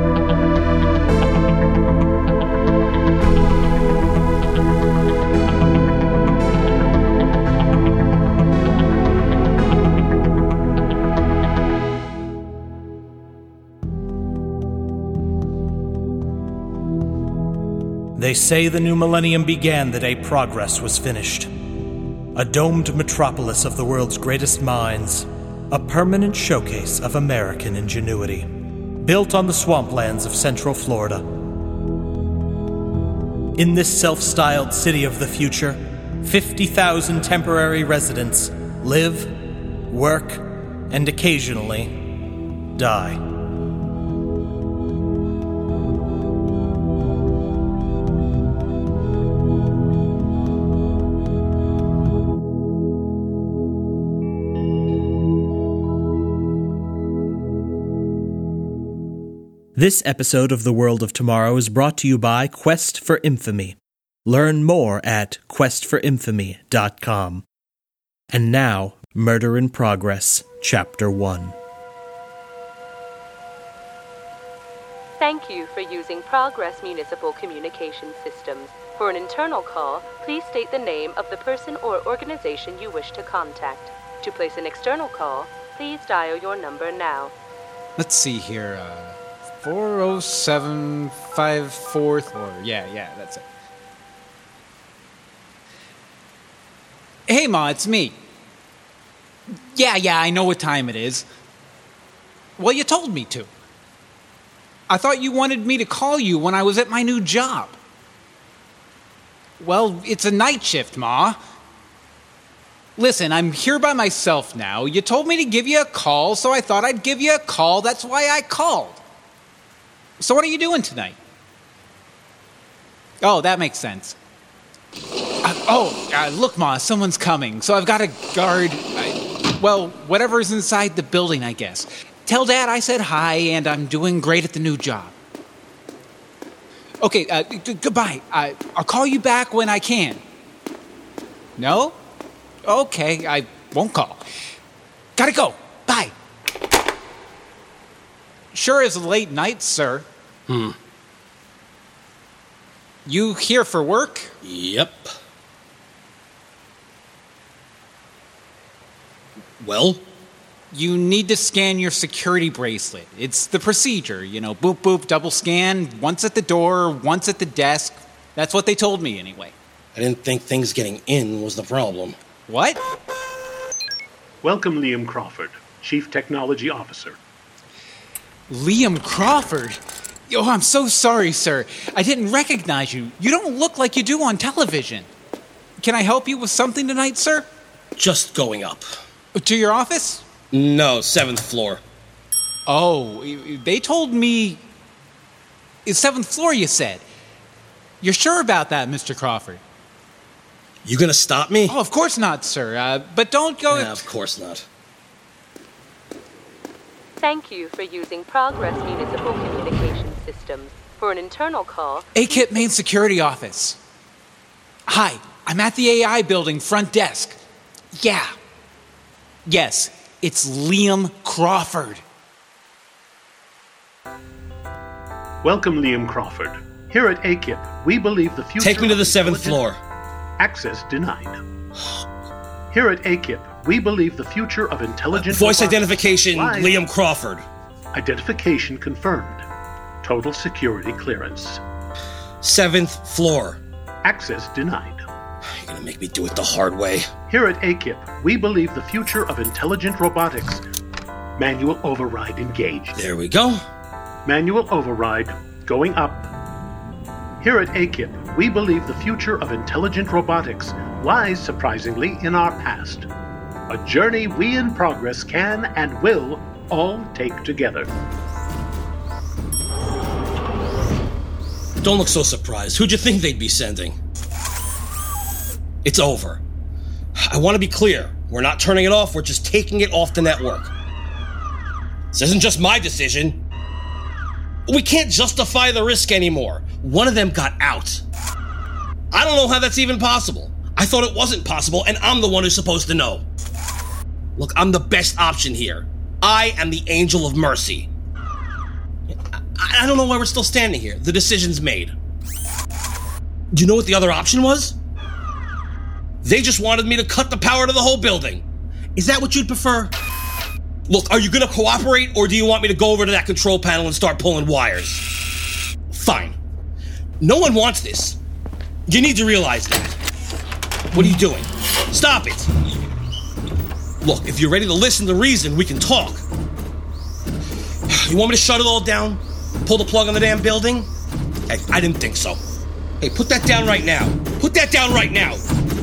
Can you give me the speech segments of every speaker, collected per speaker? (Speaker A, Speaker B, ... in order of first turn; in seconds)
Speaker A: 18.1-21.5, 22.3-31.3, 33.5-42.1, 42.7-43.2, 59.7-67.4, 68.3-71.5
Speaker B: 75.2-87.3, 207.2-212.1
Speaker C: 88.0-93.5, 97.3-98.2, 99.7-101.2, 102.6-103.5, 104.9-107.8, 109.6-111.4, 113.0-119.0, 120.2-121.2, 123.2-124.2, 125.4-135.1, 137.0-140.2, 141.6-142.0, 142.6-144.2, 145.2-146.1, 148.5-150.1, 153.1-154.3, 160.7-169.5, 172.5-172.8, 178.5-185.1, 185.8-187.4, 189.3-190.2, 192.7-194.7, 195.8-197.0, 198.0-199.6, 201.7-204.1, 212.1-213.8, 214.9-217.4, 217.9-218.3, 219.4-222.0
Speaker D: 150.5-150.8, 154.4-155.1, 159.6-160.0, 169.9-172.2, 188.0-188.9, 190.5-191.8, 200.8-201.8, 203.7-204.6, 228.6-229.8, 235.1-237.4, 242.4-243.6, 245.6-247.1, 252.9-253.6, 271.8-273.9, 275.8-276.4, 277.2-280.7, 282.1-283.4, 284.7-288.0, 289.1-293.2, 294.4-297.9, 299.6-301.9, 303.5-304.7, 306.2-308.4, 308.9-309.9, 310.9-315.0, 315.9-316.4, 317.2-318.2, 318.9-320.0, 320.9-322.5, 324.0-326.2, 327.9-330.9, 331.5-332.4, 333.0-335.4
Speaker E: 174.4-177.2, 225.4-229.6, 230.4-231.4, 232.7-236.8, 237.9-239.4, 240.0-241.6, 244.0-245.0, 247.3-250.6, 251.4-253.0, 254.2-256.3, 257.4-263.1, 263.7-267.9